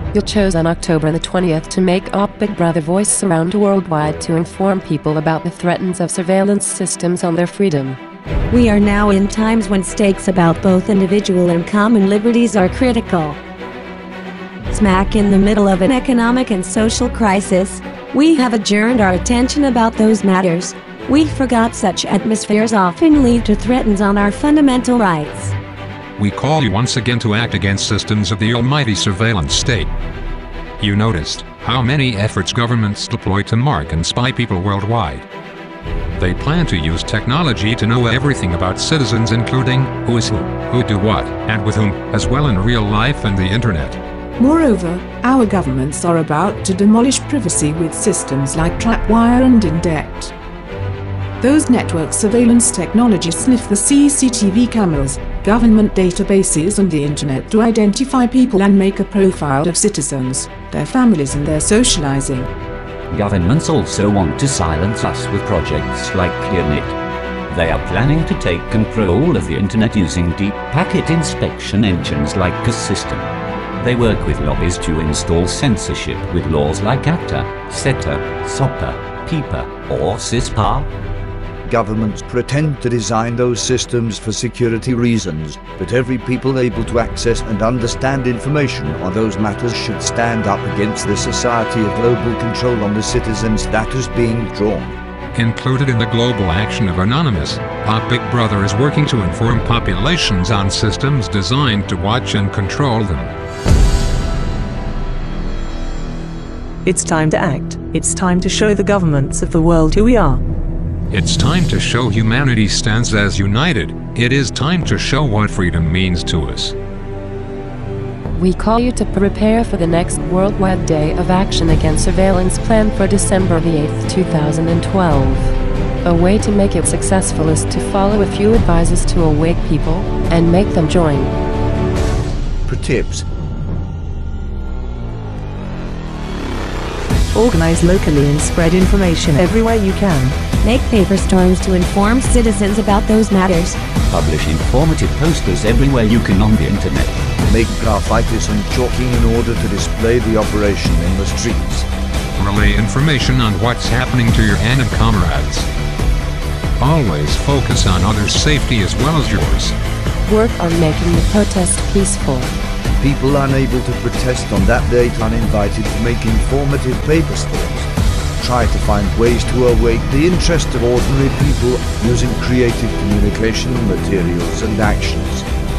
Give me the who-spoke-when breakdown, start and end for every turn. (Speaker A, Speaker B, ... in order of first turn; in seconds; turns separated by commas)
Speaker A: 0.1-8.0, Speaker B: 8.5-13.4, Speaker B: 14.7-25.5, Speaker C: 26.2-29.9, Speaker C: 30.8-35.2, Speaker C: 36.1-44.0, Speaker D: 44.4-50.3, Speaker D: 51.4-62.5, Speaker E: 63.1-67.0, Speaker E: 67.5-80.9, Speaker F: 81.7-95.0, Speaker C: 95.3-103.3, Speaker G: 106.8-110.4, Speaker C: 111.1-116.7, Speaker A: 118.3-131.3, Speaker F: 132.7-133.2, Speaker G: 137.3-140.4, Speaker B: 140.6-143.8, Speaker E: 144.1-147.2, Speaker F: 147.4-151.9, Speaker C: 152.4-155.7, Speaker C: 156.8-159.8, Speaker A: 160.2-162.5, Speaker F: 163.0-175.4